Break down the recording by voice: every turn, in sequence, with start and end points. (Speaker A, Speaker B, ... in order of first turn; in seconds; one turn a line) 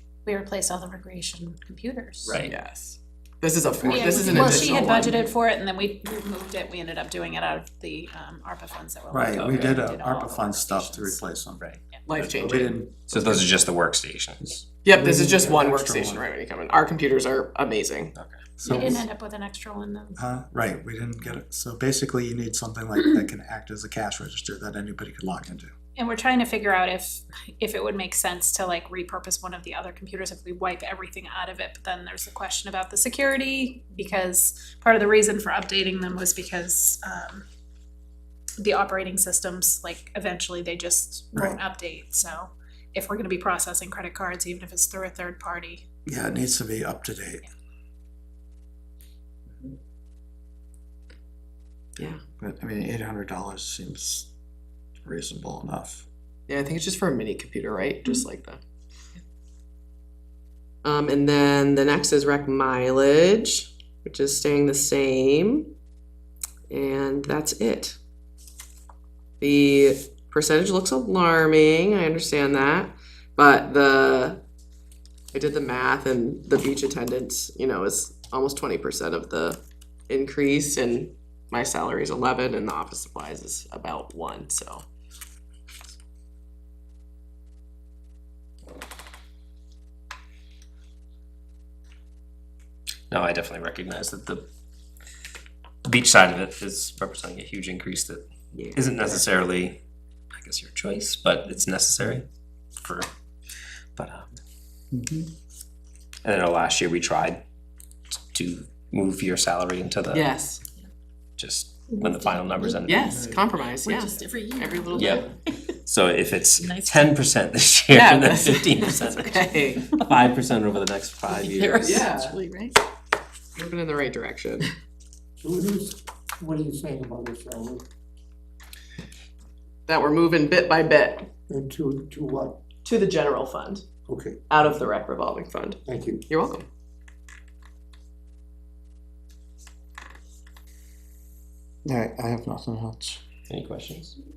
Speaker A: 0.2-2.4
Speaker B: 2.3-2.5
Speaker C: 2.4-5.2
Speaker A: 3.8-11.2
Speaker D: 9.1-11.6
Speaker B: 11.6-12.3
Speaker C: 12.1-13.6
Speaker D: 12.3-12.9
Speaker B: 13.1-14.6
Speaker D: 14.7-16.3
Speaker C: 14.8-18.1
Speaker D: 18.6-19.1
Speaker A: 18.6-20.2
Speaker D: 20.2-25.7
Speaker A: 26.0-37.5
Speaker A: 38.6-45.9
Speaker D: 46.1-47.4
Speaker C: 52.0-52.2
Speaker D: 52.4-54.3
Speaker D: 55.0-56.1
Speaker C: 56.5-58.6
Speaker C: 60.8-65.7
Speaker C: 66.7-68.0
Speaker C: 69.4-74.4
Speaker C: 75.3-84.8
Speaker B: 93.1-94.4
Speaker B: 95.9-98.2
Speaker C: 98.5-99.2
Speaker B: 98.8-99.8
Speaker B: 100.4-102.3
Speaker B: 102.8-103.1
Speaker B: 104.0-104.4
Speaker B: 106.2-107.4
Speaker B: 108.3-110.3
Speaker C: 110.1-110.6
Speaker B: 111.4-112.9
Speaker E: 111.9-115.8
Speaker C: 112.9-115.3
Speaker B: 114.9-115.3
Speaker B: 115.9-119.4
Speaker E: 116.6-117.2
Speaker C: 117.9-119.9
Speaker E: 119.5-119.9
Speaker B: 120.0-122.1
Speaker E: 121.2-122.8
Speaker C: 121.8-122.4
Speaker C: 123.5-124.7
Speaker F: 125.4-127.8
Speaker C: 129.9-131.3
Speaker F: 131.5-132.6
Speaker C: 132.8-133.8
Speaker F: 134.1-134.4
Speaker C: 134.5-136.7
Speaker F: 135.9-136.2
Speaker D: 141.8-143.2
Speaker B: 143.5-144.2